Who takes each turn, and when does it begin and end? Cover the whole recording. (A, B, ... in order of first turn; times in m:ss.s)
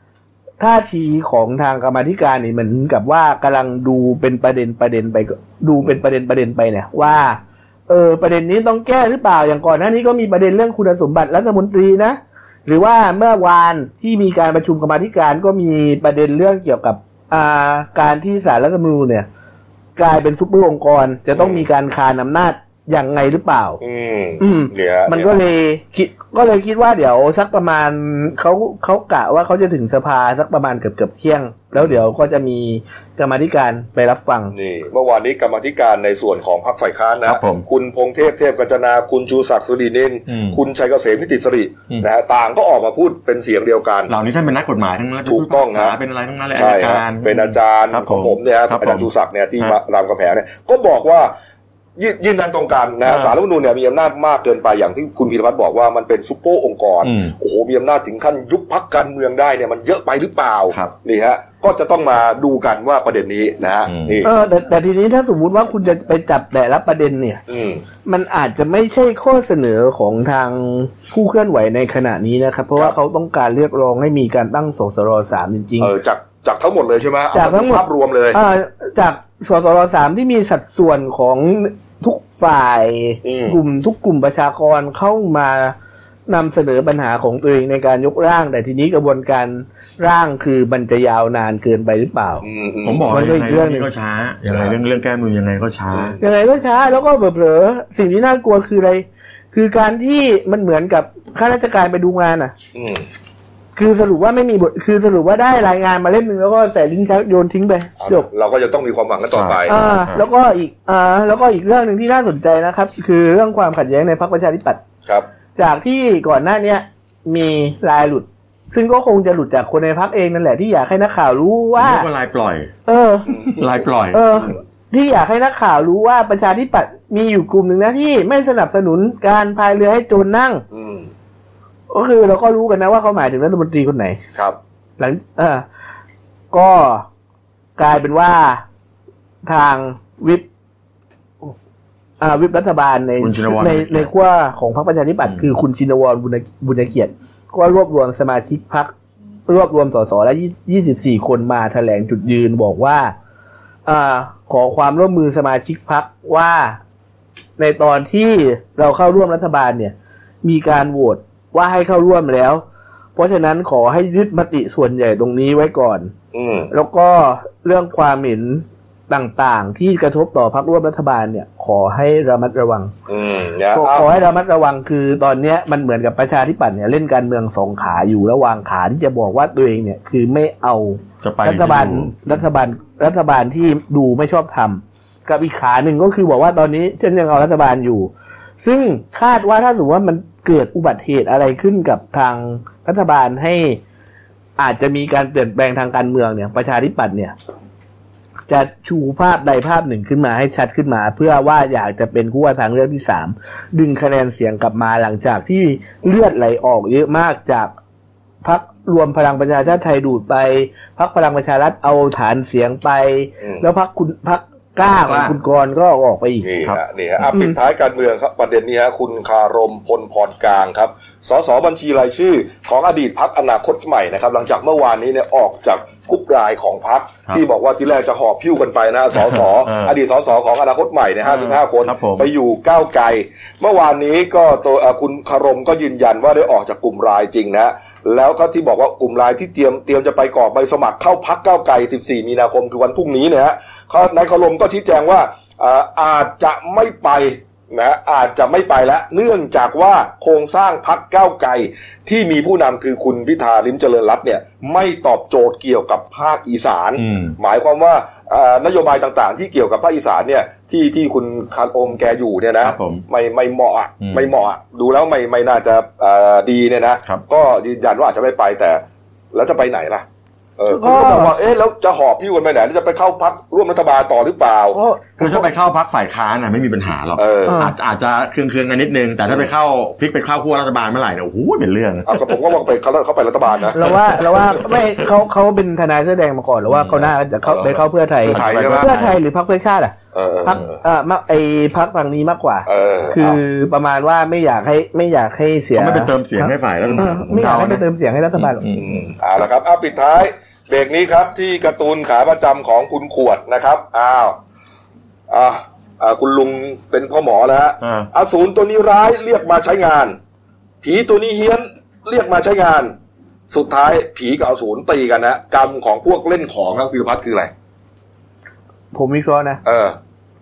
0:00.6-0:19.3 A
0:20.0-0:23.8 A
0:21.3-0:21.6 B
0:23.8-0:25.3 B
0:24.4-0:34.5 A
0:34.5-0:44.1 B
0:37.2-0:37.6 C
0:40.3-0:40.6 C
0:44.1-0:49.8 C
0:45.2-0:45.9 B
0:46.5-0:51.3 B
0:52.0-1:04.3 B
0:53.0-0:53.3 C
0:57.0-0:57.3 C
1:03.9-1:04.2 C
1:04.2-1:07.4 A
1:07.5-1:07.8 B
1:08.0-1:15.9 A
1:15.8-1:18.4 B
1:17.3-1:25.7 A
1:23.2-1:23.6 B
1:26.3-1:32.4 A
1:32.4-1:33.1 B
1:32.8-1:36.2 C
1:33.1-1:33.9 A
1:34.5-1:34.7 B
1:35.9-1:36.2 B
1:36.2-1:42.5 A
1:42.7-1:43.0 B
1:43.8-1:48.3 A
1:48.0-1:49.8 B
1:49.3-1:50.2 C
1:49.7-1:54.8 A
1:55.6-2:02.1 A
2:01.8-2:02.7 C
2:02.9-2:03.5 A
2:03.5-2:04.3 C
2:04.1-2:10.6 A
2:10.7-2:11.1 B
2:11.9-2:14.2 A
2:15.0-2:15.6 A
2:16.5-2:17.0 A
2:17.8-2:18.6 A
2:19.4-2:20.4 A
2:22.2-2:28.9 A
2:23.2-2:24.1 C
2:25.2-2:25.5 C
2:29.5-2:33.1 A
2:33.8-2:36.8 A
2:37.6-2:42.6 A
2:43.2-2:46.1 A
2:46.3-2:46.7 B
2:46.7-2:52.9 A
2:53.1-2:54.1 B
2:53.7-3:08.1 A
3:01.2-3:02.4 C
3:08.6-3:13.8 A
3:14.6-3:17.3 A
3:18.5-3:27.7 A
3:28.4-3:36.4 A
3:34.9-3:35.4 C
3:36.4-4:28.8 B
3:49.1-3:50.0 C
3:51.2-3:52.3 C
4:17.0-4:17.4 C
4:22.6-4:23.0 C
4:24.0-4:24.3 C
4:29.3-4:30.0 B
4:30.6-4:34.8 B
4:30.7-4:31.3 A
4:34.7-4:35.4 A
4:35.2-4:42.4 C
4:37.2-4:37.6 B
4:37.5-4:37.7 A
4:42.1-4:43.9 B
4:43.7-4:58.6 A
4:43.8-4:44.7 C
4:46.7-4:47.1 C
4:47.4-4:48.9 B
4:48.2-4:49.2 C
4:50.1-4:50.8 B
4:52.6-4:53.4 B
4:55.7-4:57.8 C
4:58.4-4:59.0 C
4:58.7-5:04.4 B
5:05.3-5:10.2 B
5:07.8-5:08.1 C
5:10.8-5:12.9 B
5:13.5-5:17.5 B
5:18.9-5:19.6 A
5:19.6-5:20.0 B